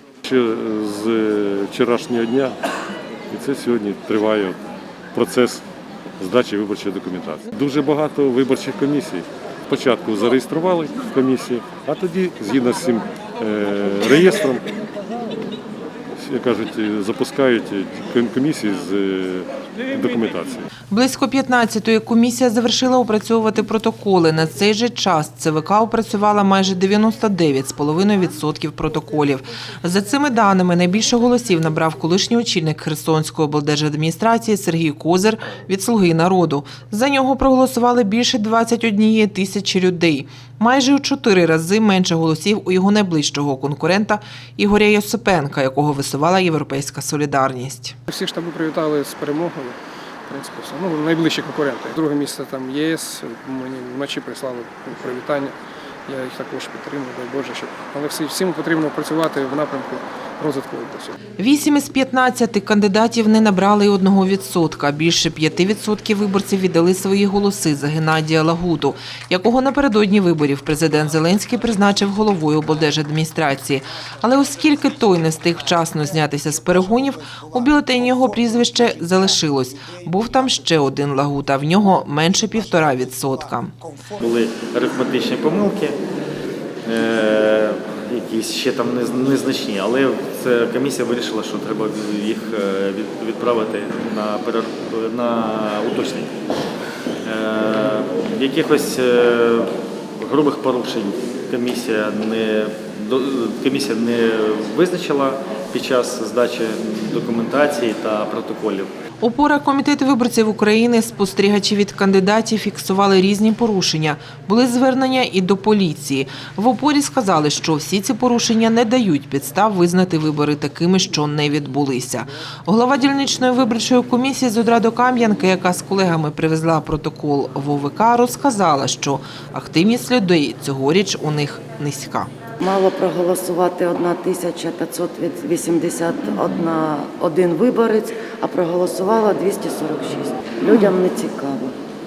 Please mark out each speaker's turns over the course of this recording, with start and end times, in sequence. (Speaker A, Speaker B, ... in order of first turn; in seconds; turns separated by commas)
Speaker A: 0.2-2.6, Speaker A: 3.3-4.6, Speaker A: 5.1-5.7, Speaker A: 6.2-14.7, Speaker A: 16.2-20.7, Speaker B: 20.9-48.0, Speaker C: 48.1-49.8, Speaker C: 50.3-55.5, Speaker C: 56.1-61.1, Speaker B: 61.4-83.7, Speaker D: 84.2-86.0, Speaker D: 86.8-96.3, Speaker D: 97.2-108.9, Speaker B: 109.2-132.3, Speaker E: 132.6-141.7